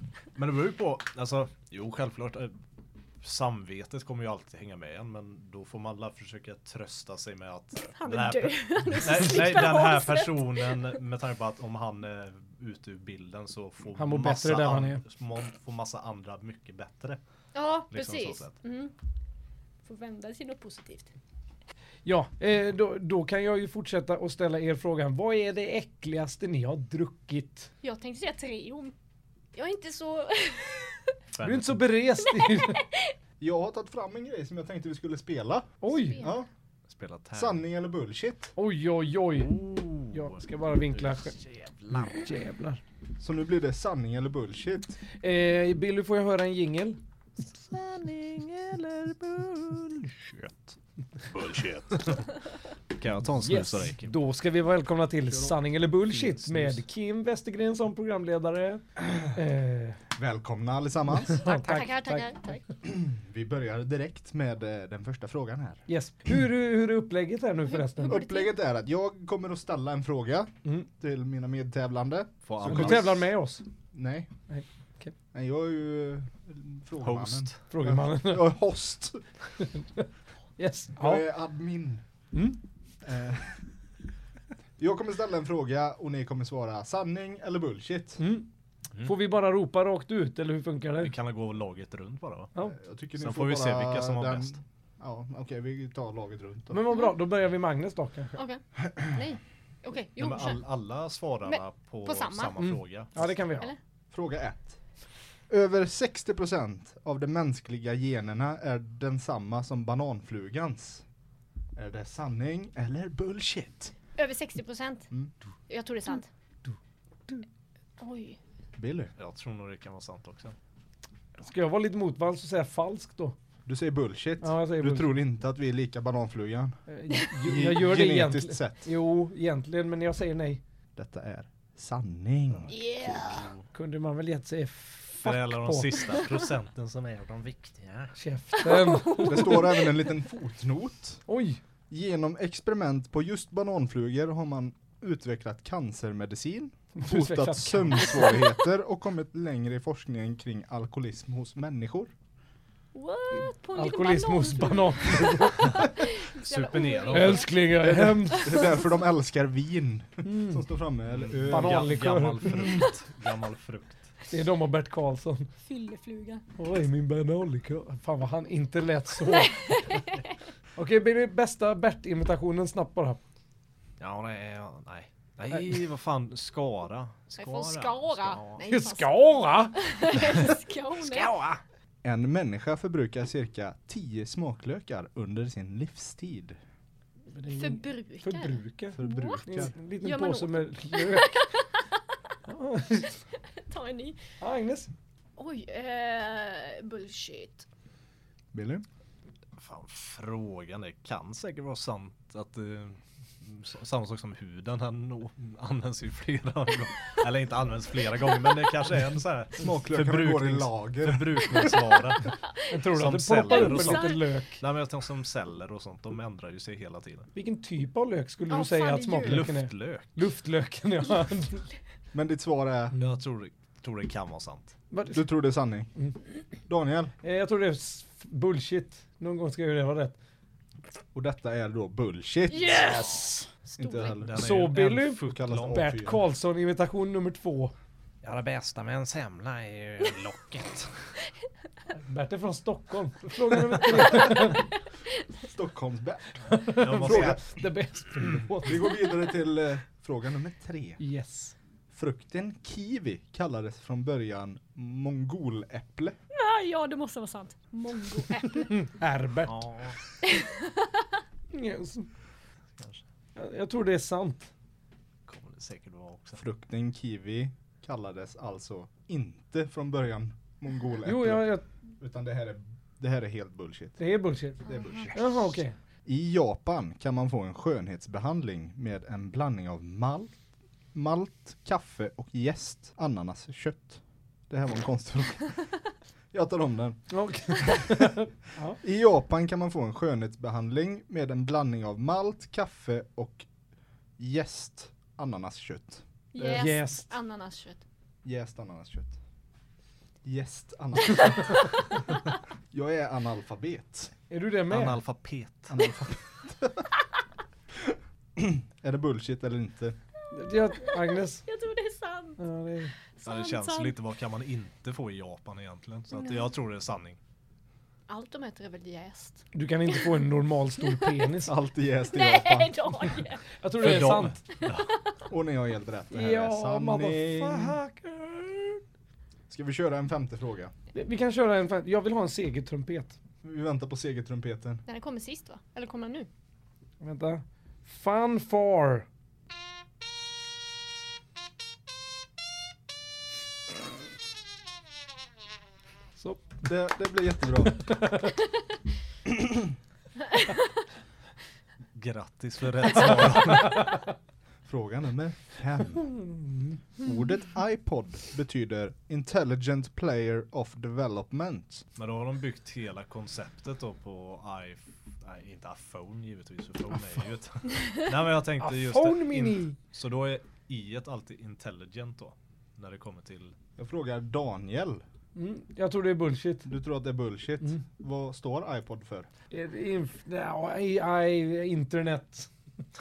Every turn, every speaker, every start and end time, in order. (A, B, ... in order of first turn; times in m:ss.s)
0:00.4-0:02.5 A
0:03.2-0:17.2 A
0:07.8-0:11.0 B
0:14.0-0:15.0 C
0:17.5-0:18.9 B
0:17.9-0:18.5 A
0:19.8-0:21.1 B
0:22.0-0:27.7 C
0:27.8-0:28.9 B
0:29.5-0:31.2 B
0:31.3-0:31.8 A
0:31.4-0:32.8 C
0:32.2-0:33.1 B
0:33.4-0:36.5 D
0:35.8-0:36.2 C
0:35.8-0:36.4 B
0:36.9-0:37.6 A
0:37.3-0:38.5 D
0:38.6-0:39.6 C
0:39.4-0:40.4 A
0:40.1-0:41.4 C
0:40.9-0:42.2 A
0:41.9-0:42.8 C
0:43.2-0:45.0 D
0:45.2-0:47.0 C
0:47.4-0:50.8 A
0:51.3-0:52.4 A
0:51.5-0:52.0 D
0:52.9-0:54.1 A
0:53.4-1:00.0 C
0:55.3-0:55.6 D
0:56.2-0:56.8 A
1:00.1-1:01.4 D
1:01.3-1:02.3 C
1:01.3-1:02.6 B
1:02.8-1:05.8 D
1:05.9-1:08.2 C
1:07.7-1:08.5 B
1:08.1-1:13.2 D
1:12.4-1:13.2 A
1:12.7-1:13.6 C
1:13.9-1:14.3 D
1:14.5-1:15.1 C
1:15.3-1:19.2 D
1:17.0-1:17.6 A
1:17.7-1:18.6 C
1:19.6-1:21.2 C
1:21.0-1:22.0 D
1:22.3-1:22.6 C
1:23.0-1:23.6 D
1:24.8-1:28.2 D
1:28.2-1:28.5 C
1:29.0-1:31.1 C
1:31.0-1:32.5 A
1:32.7-1:36.8 D
1:33.2-1:34.6 A
1:36.7-1:38.4 C
1:38.3-1:40.6 B
1:40.2-1:43.2 A
1:41.4-1:42.6 B
1:42.6-1:43.7 C
1:44.1-1:44.8 D
1:45.5-1:51.0 D
1:51.8-1:53.9 D
1:54.2-1:55.0 B
1:55.7-1:56.3 B
1:58.0-1:58.4 B
1:58.8-1:59.1 D
1:59.2-2:00.6 A
2:01.4-2:03.4 C
2:03.6-2:06.8 D
2:04.4-2:05.1 C
2:06.9-2:10.6 C
2:07.4-2:08.9 D
2:11.0-2:12.8 D
2:12.7-2:13.5 B
2:13.0-2:13.6 A
2:13.7-2:16.2 C
2:15.2-2:18.2 A
2:18.2-2:19.7 C
2:18.7-2:19.9 B
2:19.2-2:21.2 D
2:21.3-2:21.6 C
2:21.9-2:32.1 D
2:27.0-2:28.5 C
2:32.9-2:37.6 B
2:33.3-2:35.8 C
2:35.6-2:37.5 A
2:37.1-2:38.6 C
2:37.8-2:42.1 D
2:38.3-2:38.7 B
2:40.2-2:40.6 C
2:41.1-2:44.0 A
2:41.5-2:42.6 C
2:44.3-2:45.5 C
2:45.6-2:46.4 B
2:46.6-2:50.0 C
2:49.2-2:50.3 B
2:50.8-2:53.2 C
2:54.0-2:58.6 A
2:57.4-3:01.3 B
2:58.7-2:59.9 C
3:01.0-3:01.6 A
3:02.0-3:06.6 D
3:07.3-3:11.5 C
3:07.5-3:09.4 B
3:08.9-3:09.7 D
3:10.0-3:12.0 B
3:12.4-3:13.2 C
3:13.6-3:14.2 B
3:14.4-3:14.9 C
3:15.4-3:17.7 B
3:18.5-3:18.8 D
3:19.6-3:37.3 A
3:29.6-3:31.7 D
3:32.7-3:34.6 C
3:33.5-3:34.3 B
3:37.3-3:41.7 C
3:38.5-3:39.5 B
3:39.2-3:40.1 A
3:42.1-3:42.9 D
3:43.0-3:44.7 A
3:44.9-3:45.3 C
3:45.1-3:45.9 D
3:46.7-3:47.1 D
3:47.2-3:50.2 C
3:51.1-3:53.1 D
3:52.5-3:54.2 B
3:53.8-3:54.6 D
3:54.1-3:55.9 A
3:54.4-3:57.7 C
3:55.2-3:56.2 D
3:58.2-4:01.1 A
4:01.9-4:04.6 C
4:05.5-4:07.4 D
4:06.4-4:09.0 C
4:06.8-4:07.4 A
4:08.5-4:11.0 D
4:11.0-4:11.5 C
4:11.9-4:16.2 D
4:16.3-4:18.7 B
4:18.6-4:19.7 C
4:19.4-4:20.0 A
4:20.2-4:21.1 B
4:21.5-4:22.1 C
4:22.8-4:23.0 A
4:23.4-4:24.5 C
4:25.2-4:26.4 A
4:26.4-4:34.0 D
4:31.0-4:31.6 C
4:34.0-4:34.6 C
4:34.6-4:35.4 D
4:34.6-4:35.1 B
4:35.1-4:35.8 C
4:36.0-4:40.3 D
4:40.9-4:45.5 D
4:46.3-4:47.0 D
4:47.1-4:48.8 C
4:47.6-4:48.1 D
4:48.8-4:53.5 D
4:54.2-4:56.7 D
4:56.3-4:57.8 B
4:56.4-4:57.1 C
4:58.2-4:59.2 D
5:00.2-5:01.8 D
5:02.7-5:04.1 D
5:04.3-5:05.0 C
5:04.7-5:05.8 A
5:05.7-5:06.9 D
5:07.7-5:10.0 D
5:10.3-5:11.4 C
5:10.7-5:12.4 B
5:12.4-5:12.9 C
5:13.1-5:14.0 B
5:13.2-5:17.2 A
5:16.2-5:16.4 B
5:18.1-5:20.0 B
5:19.5-5:21.5 C
5:21.4-5:22.8 D
5:22.0-5:23.4 B
5:23.6-5:24.4 C
5:23.8-5:24.9 A
5:25.3-5:27.8 D
5:26.1-5:28.8 C
5:29.5-5:30.7 D
5:30.9-5:33.2 C
5:33.4-5:34.8 D
5:34.8-5:36.3 B
5:37.0-5:39.1 C
5:46.2-5:46.6 C
5:46.6-5:47.9 D
5:47.8-5:48.4 C
5:49.2-5:49.6 D
5:51.9-5:53.9 A
5:54.6-5:56.1 D
5:56.2-5:56.6 C
5:57.0-6:01.8 D
6:02.0-6:13.5 A
6:08.6-6:09.8 C
6:13.8-6:15.0 D
6:15.4-6:16.7 C
6:16.6-6:19.3 D
6:19.5-6:22.5 C